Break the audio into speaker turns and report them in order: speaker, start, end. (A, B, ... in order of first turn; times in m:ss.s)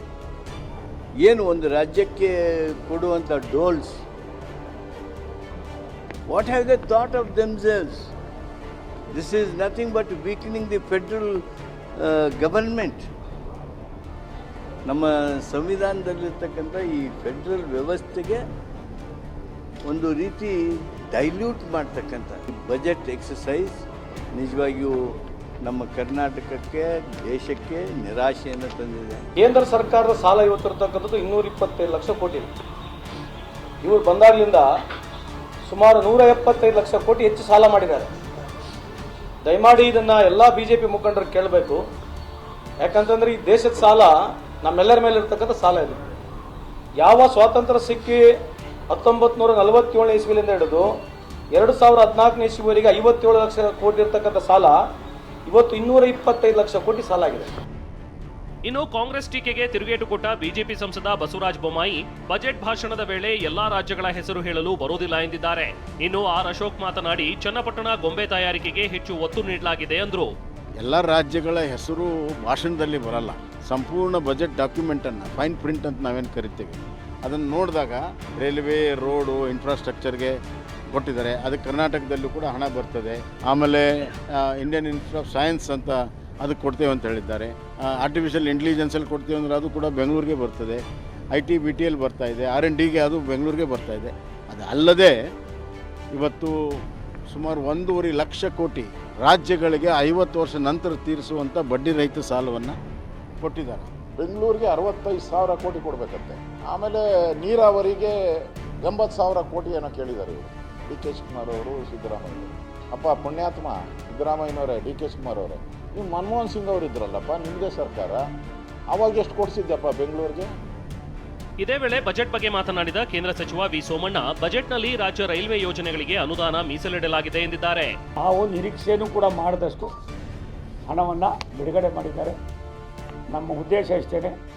0:01.2-0:04.0 A
0:06.3-0:08.1 A
0:09.1-0:11.4 A
0:12.0-0:13.1 A
0:14.8-0:18.4 A
0:19.9-0:25.0 A
0:25.6-0:29.2 A
0:29.4-0:32.5 B
0:33.8-0:34.7 B
0:35.6-0:38.1 B
0:39.4-0:41.8 B
0:42.8-0:46.0 B
0:47.0-0:48.2 B
0:48.9-0:50.9 B
0:51.5-0:54.8 B
0:55.4-0:57.5 B
0:58.6-1:10.3 C
1:10.8-1:20.4 D
1:20.9-1:30.8 D
1:31.4-1:35.2 D
1:36.1-1:36.5 D
1:37.3-1:42.8 D
1:43.4-1:43.9 D
1:44.2-1:48.1 E
1:48.8-1:58.2 E
1:58.9-2:00.5 E
2:01.6-2:07.9 C
2:08.2-2:09.9 F
2:10.9-2:12.4 F
2:13.3-2:14.4 F